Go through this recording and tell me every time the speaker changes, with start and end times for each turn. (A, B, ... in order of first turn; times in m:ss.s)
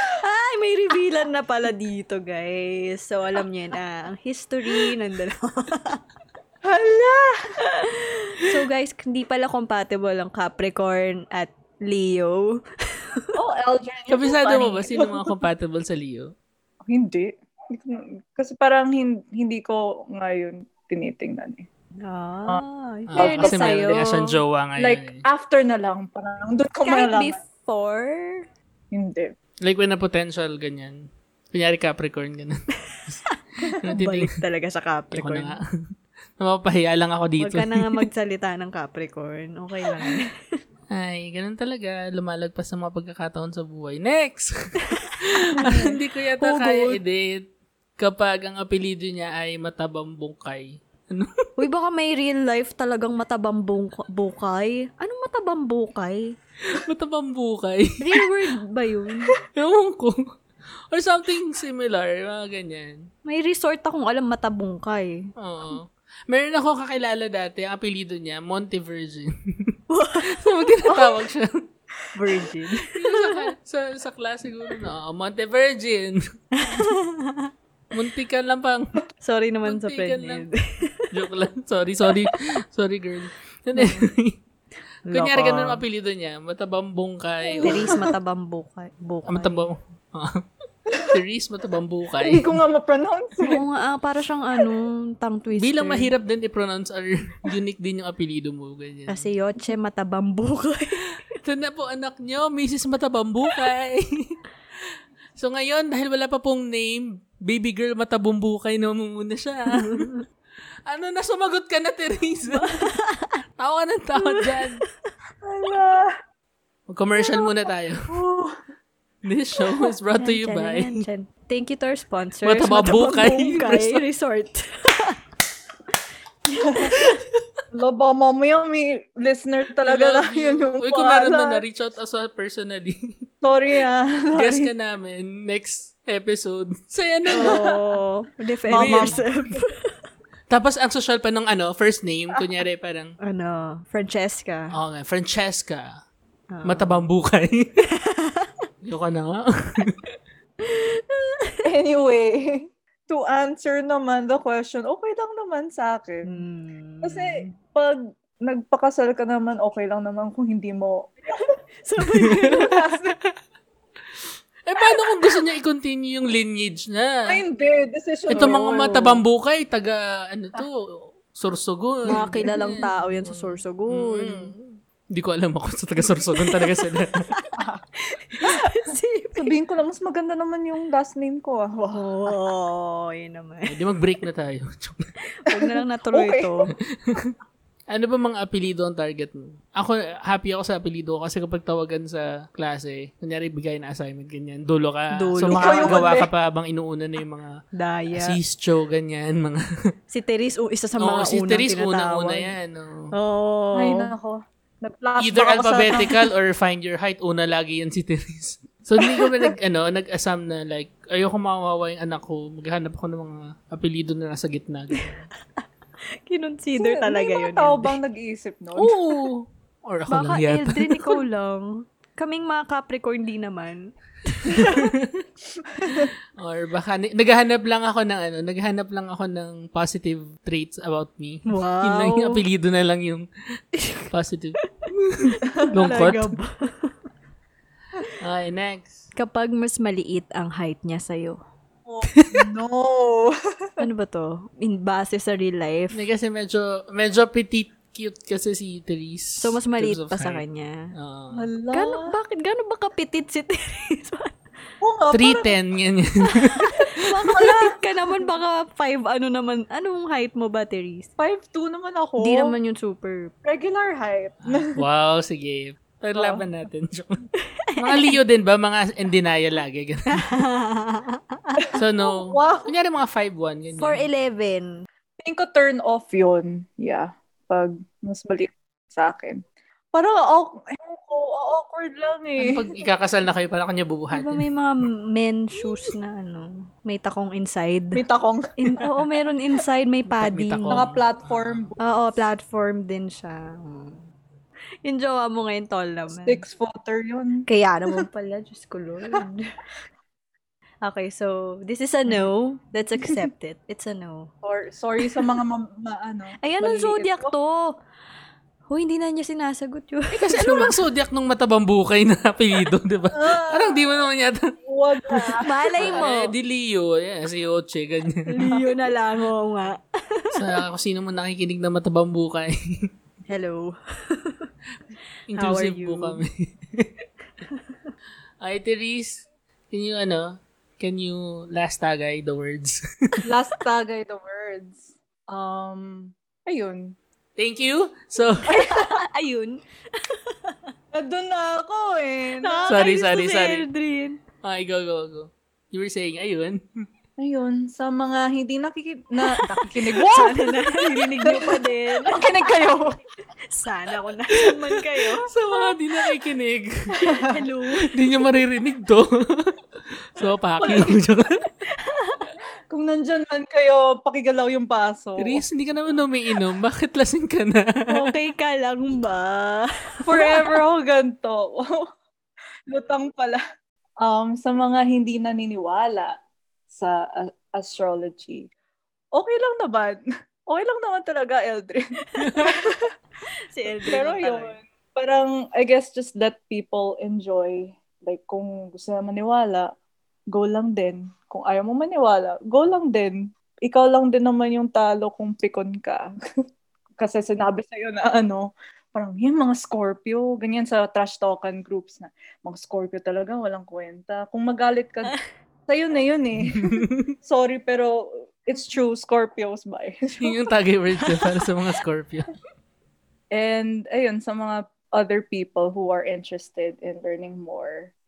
0:00.2-0:06.0 A
0:06.7-0:07.4 B
0:07.6-0:12.6 A
0:13.4-0:15.4 B
0:14.1-0:16.3 C
0:16.9-0:21.7 B
0:22.0-0:24.4 A
0:23.1-0:25.2 C
0:23.2-0:24.0 B
0:24.8-0:27.4 B
0:26.8-0:28.5 A
0:28.9-0:29.3 B
0:29.6-0:33.2 C
0:32.9-0:35.6 A
0:33.8-0:34.4 C
0:35.1-0:35.6 C
0:36.4-0:38.1 C
0:37.4-0:40.3 A
0:40.9-0:47.5 C
0:45.0-0:47.0 A
0:48.0-0:51.5 C
0:51.6-0:56.4 A
0:56.7-0:58.3 C
0:58.0-0:59.4 A
0:59.6-1:00.2 C
1:00.9-1:03.1 C
1:03.2-1:05.3 A
1:05.4-1:11.7 C
1:09.9-1:10.5 A
1:12.1-1:13.5 A
1:12.8-1:16.2 C
1:16.6-1:17.5 A
1:17.9-1:19.0 C
1:19.2-1:21.1 A
1:19.6-1:20.4 C
1:21.1-1:24.4 C
1:23.8-1:24.1 A
1:25.0-1:25.8 A
1:25.1-1:28.0 C
1:27.4-1:28.0 B
1:27.6-1:29.6 A
1:29.3-1:30.4 C
1:31.1-1:32.5 C
1:32.2-1:33.6 B
1:33.4-1:36.1 A
1:35.6-1:39.3 C
1:39.1-1:41.2 A
1:41.4-1:44.4 C
1:45.4-1:50.1 C
1:49.7-1:50.2 A
1:50.9-1:52.8 C
1:52.5-1:53.4 A
1:53.6-1:54.8 C
1:54.2-1:54.8 A
1:55.4-1:56.1 B
1:56.9-1:58.1 C
1:58.1-1:58.6 B
1:59.2-2:01.0 C
2:00.2-2:05.2 A
2:02.4-2:04.0 C
2:06.5-2:07.0 B
2:06.9-2:07.2 A
2:07.7-2:11.6 B
2:09.8-2:13.2 C
2:13.4-2:14.7 B
2:14.3-2:17.6 C
2:17.3-2:17.8 B
2:17.3-2:20.0 A
2:18.7-2:19.2 B
2:18.7-2:19.3 C
2:20.5-2:23.2 C
2:23.2-2:24.7 A
2:24.7-2:26.0 C
2:26.5-2:27.1 A
2:26.6-2:27.9 C
2:27.9-2:28.5 A
2:28.8-2:30.0 C
2:30.6-2:31.6 A
2:31.6-2:36.4 B
2:36.2-2:37.5 A
2:37.0-2:41.5 B
2:41.8-2:42.9 A
2:42.1-2:42.6 C
2:42.5-2:43.2 B
2:44.7-2:47.4 C
2:47.3-2:49.1 B
2:48.3-2:57.3 C
2:48.4-2:49.2 A
2:52.1-2:52.9 B
2:52.1-2:54.5 A
2:56.4-2:59.5 A
2:58.4-3:02.4 B
3:01.9-3:03.8 A
3:03.7-3:05.1 C
3:05.3-3:06.7 A
3:05.5-3:06.5 B
3:06.9-3:07.4 C
3:07.9-3:17.6 C
3:15.1-3:16.1 A
3:15.4-3:16.3 B
3:17.7-3:18.4 A
3:18.1-3:19.6 C
3:20.1-3:22.6 A
3:21.0-3:23.1 C
3:23.1-3:24.1 A
3:23.8-3:26.3 B
3:25.2-3:35.1 C
3:29.0-3:29.5 B
3:36.3-3:38.0 A
3:36.8-3:39.0 B
3:38.8-3:41.2 C
3:40.1-3:44.8 A
3:44.5-3:45.2 C
3:45.6-3:46.1 B
3:46.4-3:53.3 C
3:51.5-3:52.4 A
3:53.8-3:54.1 A
3:54.1-3:56.4 C
3:55.6-3:57.0 A
3:58.2-3:59.1 C
3:59.2-4:01.4 A
4:01.9-4:03.8 B
4:02.1-4:02.4 C
4:03.8-4:06.0 A
4:05.9-4:10.4 C
4:09.4-4:10.9 A
4:11.0-4:11.5 C
4:11.3-4:12.2 B
4:11.7-4:14.4 A
4:14.8-4:15.5 B
4:15.1-4:16.9 C
4:16.2-4:21.1 A
4:17.3-4:17.8 B
4:21.2-4:22.6 B
4:22.2-4:23.3 A
4:23.4-4:24.8 B
4:24.4-4:30.4 C
4:26.2-4:26.4 B
4:27.4-4:28.2 A
4:30.2-4:31.7 A
4:31.6-4:32.7 B
4:31.8-4:34.1 C
4:33.8-4:34.8 A
4:35.2-4:39.4 B
4:39.9-4:42.7 B
4:42.4-4:44.4 C
4:44.1-4:48.0 A
4:47.9-4:48.8 B
4:48.6-4:50.9 A
4:50.1-4:51.8 C
4:50.7-4:51.8 B
4:51.8-4:54.0 A
4:54.8-4:56.4 A
4:56.1-4:58.1 B
4:57.5-4:59.5 A
5:00.8-5:04.3 A
5:04.4-5:07.3 B
5:05.0-5:05.3 A
5:06.4-5:07.8 A
5:08.7-5:10.8 A
5:10.1-5:14.5 C
5:13.1-5:13.9 B
5:14.7-5:16.0 B
5:15.4-5:16.3 A
5:15.8-5:18.5 C
5:18.3-5:20.5 A
5:20.3-5:22.6 C
5:23.3-5:24.5 A
5:25.3-5:26.9 C
5:25.4-5:26.2 A
5:27.5-5:27.9 A
5:28.4-5:33.3 C
5:33.3-5:37.0 B
5:37.4-5:38.6 C
5:38.5-5:39.0 B
5:38.5-5:40.6 A
5:40.9-5:42.8 B
5:42.4-5:44.2 A
5:42.7-5:43.7 C
5:44.4-5:46.6 C
5:47.2-5:53.0 B
5:49.3-5:52.4 A
5:53.5-5:55.3 A
5:55.2-5:57.3 C
5:57.0-5:57.4 B
5:57.3-5:58.0 A
5:57.8-6:01.4 C
6:00.6-6:01.0 B
6:01.7-6:02.2 A
6:02.7-6:05.4 B
6:05.2-6:08.1 C
6:07.9-6:10.6 A
6:10.0-6:11.9 B
6:12.7-6:13.4 B
6:14.0-6:16.2 B
6:16.7-6:18.5 B
6:19.1-6:22.9 B
6:22.1-6:22.5 A
6:22.2-6:22.5 C
6:23.5-6:24.6 A
6:23.8-6:29.7 B
6:30.3-6:36.1 B
6:37.0-6:45.2 B
6:45.7-6:50.4 B
6:46.4-6:47.1 C
6:50.2-6:52.3 C
6:51.0-6:51.5 A
6:53.3-6:57.9 B